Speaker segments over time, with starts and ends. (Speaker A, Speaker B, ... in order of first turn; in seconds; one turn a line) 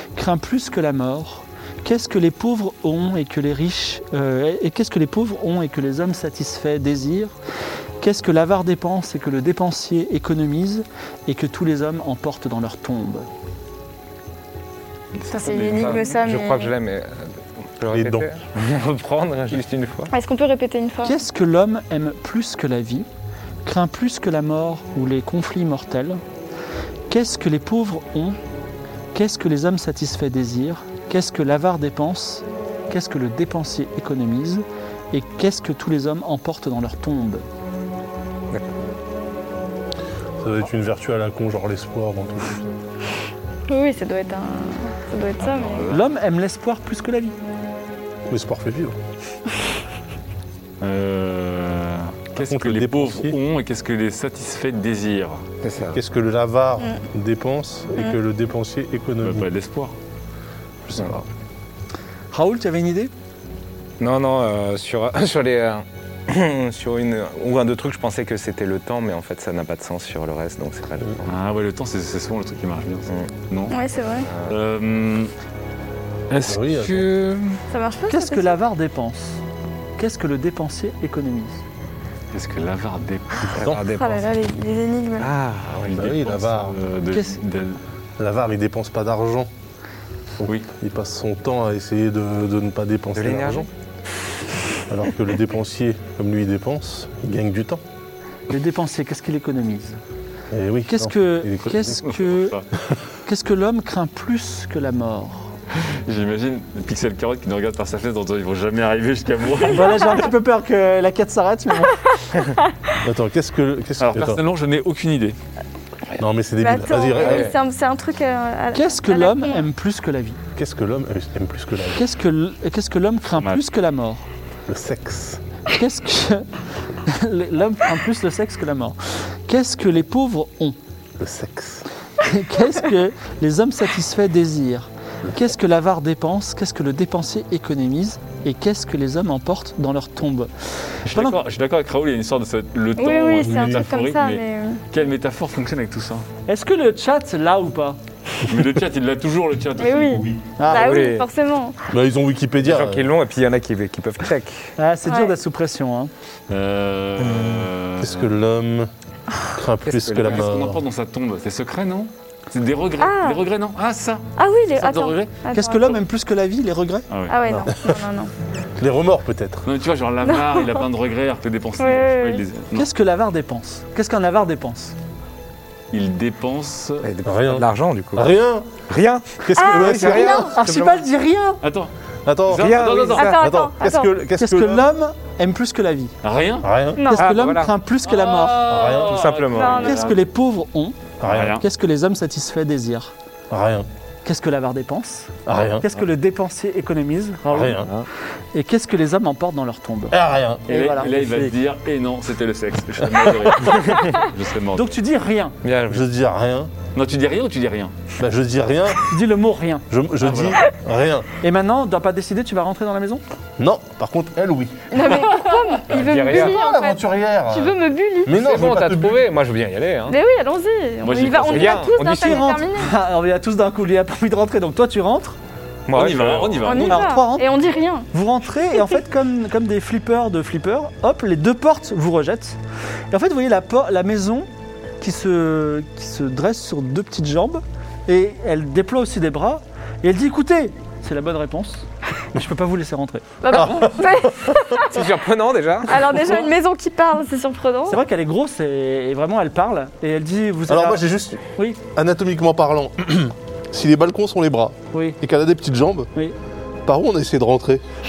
Speaker A: 0.1-7.3
Speaker A: 8.0-13.3
Speaker B: 15.1-16.1
Speaker C: 15.3-16.7
Speaker D: 15.8-20.1
Speaker E: 17.9-18.2
Speaker C: 20.1-21.2
Speaker A: 21.0-23.1
Speaker A: 23.6-26.2
Speaker A: 27.1-28.4
Speaker A: 29.1-37.5
Speaker E: 40.4-42.7
Speaker C: 43.7-45.9
Speaker B: 45.4-46.0
Speaker A: 45.9-47.3
Speaker E: 48.3-49.0
Speaker B: 50.8-55.4
Speaker E: 52.4-53.4
Speaker D: 55.6-56.0
Speaker E: 55.9-59.5
Speaker B: 59.2-59.9
Speaker E: 60.9-61.2
Speaker A: 62.3-63.1
Speaker D: 64.0-71.2
Speaker B: 71.2-73.8
Speaker C: 73.7-74.3
Speaker B: 74.5-75.3
Speaker B: 76.3-77.6
Speaker E: 76.4-77.1
Speaker C: 77.7-78.5
Speaker A: 78.1-79.4
Speaker A: 80.0-81.6
Speaker B: 82.3-83.6
Speaker D: 83.5-84.3
Speaker E: 83.6-83.8
Speaker C: 83.9-85.3
Speaker D: 85.2-86.1
Speaker B: 85.8-87.8
Speaker E: 85.9-86.8
Speaker A: 87.1-87.4
Speaker E: 88.2-89.5
Speaker E: 90.4-93.7
Speaker D: 93.1-93.7
Speaker E: 94.9-97.8
Speaker A: 98.5-100.0
Speaker E: 100.5-102.2
Speaker A: 100.9-102.6
Speaker B: 102.0-102.6
Speaker A: 103.2-105.5
Speaker B: 105.9-110.2
Speaker A: 109.7-112.0
Speaker E: 113.0-114.4
Speaker B: 114.0-115.3
Speaker E: 116.2-117.5
Speaker C: 116.6-119.7
Speaker D: 117.2-117.5
Speaker A: 118.7-120.4
Speaker E: 120.5-122.0
Speaker A: 121.9-124.2
Speaker E: 124.7-125.4
Speaker A: 125.7-126.5
Speaker A: 127.0-130.8
Speaker E: 131.2-131.8
Speaker A: 132.2-140.5
Speaker A: 141.1-141.4
Speaker B: 141.1-146.2
Speaker C: 143.0-144.8
Speaker E: 143.4-143.8
Speaker A: 146.5-148.0
Speaker B: 148.4-150.4
Speaker C: 149.8-151.8
Speaker A: 150.6-150.9
Speaker D: 150.7-151.3
Speaker E: 151.9-153.1
Speaker D: 152.6-154.7
Speaker A: 154.8-156.1
Speaker C: 155.1-155.3
Speaker B: 156.5-158.3
Speaker D: 157.2-157.7
Speaker E: 158.0-158.9
Speaker E: 159.5-160.8
Speaker D: 159.8-160.5
Speaker B: 160.2-165.3
Speaker C: 163.0-163.4
Speaker C: 164.4-166.0
Speaker A: 165.5-167.1
Speaker B: 167.1-167.7
Speaker C: 167.3-168.3
Speaker E: 167.7-168.0
Speaker E: 168.8-169.7
Speaker B: 169.6-172.9
Speaker C: 170.3-170.7
Speaker C: 171.8-172.4
Speaker A: 172.7-174.9
Speaker B: 175.9-177.1
Speaker D: 177.0-178.3
Speaker E: 177.2-178.7
Speaker D: 178.9-181.0
Speaker E: 179.4-180.6
Speaker C: 179.6-180.5
Speaker A: 180.4-181.6
Speaker B: 181.6-181.9
Speaker E: 182.2-184.9
Speaker B: 182.4-183.3
Speaker D: 182.5-183.4
Speaker C: 183.1-184.1
Speaker A: 184.3-186.1
Speaker B: 186.2-186.7
Speaker E: 186.6-187.1
Speaker C: 186.9-187.2
Speaker A: 187.1-188.7
Speaker D: 187.1-187.7
Speaker B: 188.0-190.2
Speaker E: 188.6-189.3
Speaker D: 188.8-189.9
Speaker C: 189.5-190.1
Speaker A: 189.8-191.0
Speaker E: 191.2-191.6
Speaker B: 191.3-191.6
Speaker A: 191.6-193.1
Speaker E: 193.5-193.9
Speaker A: 194.2-197.8
Speaker E: 195.4-195.8
Speaker E: 197.5-197.9
Speaker D: 197.8-198.1
Speaker A: 198.5-201.5
Speaker E: 200.1-201.0
Speaker B: 200.7-204.9
Speaker A: 204.7-205.6
Speaker D: 205.6-206.1
Speaker E: 205.9-206.7
Speaker B: 206.9-207.9
Speaker E: 208.2-209.1
Speaker A: 209.1-209.9
Speaker E: 209.9-211.3
Speaker B: 210.2-210.6
Speaker A: 211.4-213.2
Speaker E: 213.6-214.8
Speaker C: 214.9-218.4
Speaker D: 215.9-216.6
Speaker E: 216.2-219.2
Speaker D: 218.3-220.2
Speaker C: 220.1-222.9
Speaker B: 221.0-221.9
Speaker D: 221.4-222.5
Speaker A: 222.1-225.3
Speaker D: 225.9-226.7
Speaker B: 225.9-227.1
Speaker C: 226.6-228.1
Speaker A: 226.7-227.5
Speaker A: 228.1-232.6
Speaker A: 233.1-234.5
Speaker A: 235.0-243.4
Speaker C: 243.4-245.0
Speaker E: 243.5-244.5
Speaker D: 244.9-246.2
Speaker C: 245.9-248.0
Speaker A: 247.9-251.0
Speaker E: 250.7-251.4
Speaker E: 251.9-256.1
Speaker A: 254.9-255.2
Speaker E: 256.9-257.8